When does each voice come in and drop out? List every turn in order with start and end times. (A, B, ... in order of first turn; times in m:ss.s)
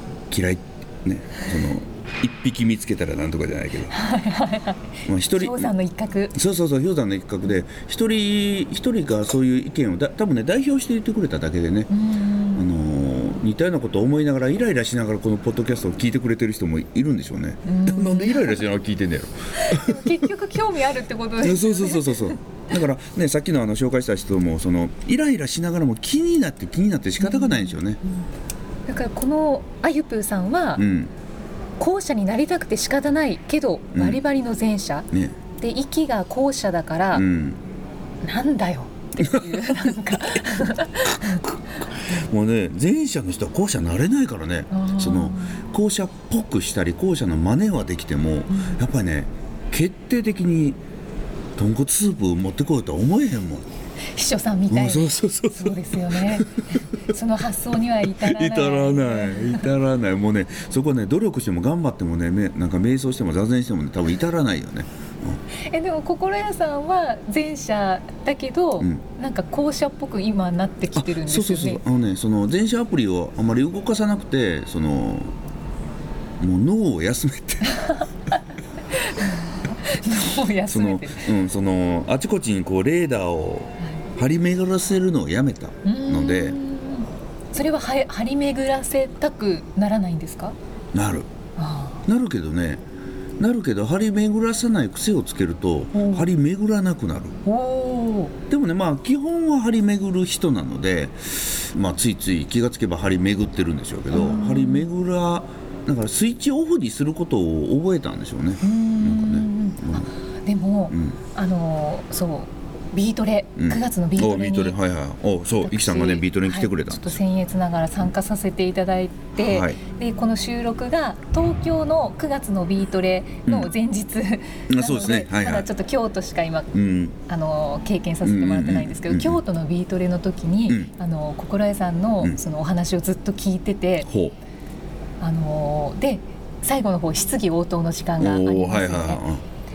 0:00.3-0:03.9 A
0:03.9-0:06.4 B
0:05.0-0:05.7 A
0:06.3-0:11.9 A
0:11.9-0:12.6 B
0:12.5-0:20.2 A
0:17.6-0:18.6 B
0:19.6-0:22.4 B
0:21.4-0:28.0 A
0:27.2-0:27.8 B
0:28.9-0:30.8 B
0:30.8-0:31.1 A
0:31.8-0:37.2 B
0:33.9-0:34.2 A
0:35.1-0:35.4 A
0:37.1-0:37.6 A
0:38.2-0:41.5 B
0:39.2-0:40.2 A
0:41.0-0:50.8 A
0:44.7-0:45.6 B
0:48.5-0:48.8 B
0:51.6-0:53.7 A
0:54.1-0:59.7 B
0:54.7-0:56.6 A
0:58.2-1:05.4 A
1:05.7-1:11.8 B
1:11.0-1:15.3 A
1:16.4-1:17.8 A
1:17.7-1:18.1 B
1:18.9-1:21.3 B
1:20.7-1:26.6 A
1:25.8-1:30.6 B
1:30.9-1:31.3 A
1:31.6-1:32.0 B
1:32.0-1:32.8 A
1:33.4-1:37.3 A
1:35.9-1:36.3 B
1:37.4-1:38.3 B
1:38.5-1:50.1 A
1:44.1-1:44.8 B
1:48.6-1:54.8 B
1:50.9-1:51.2 A
1:53.6-1:57.2 A
1:55.6-2:06.7 B
1:59.4-1:59.8 A
2:04.7-2:05.7 A
2:06.7-2:07.1 A
2:07.2-2:14.1 B
2:08.2-2:09.4 A
2:14.0-2:14.3 A
2:15.2-2:19.2 B
2:18.2-2:19.4 A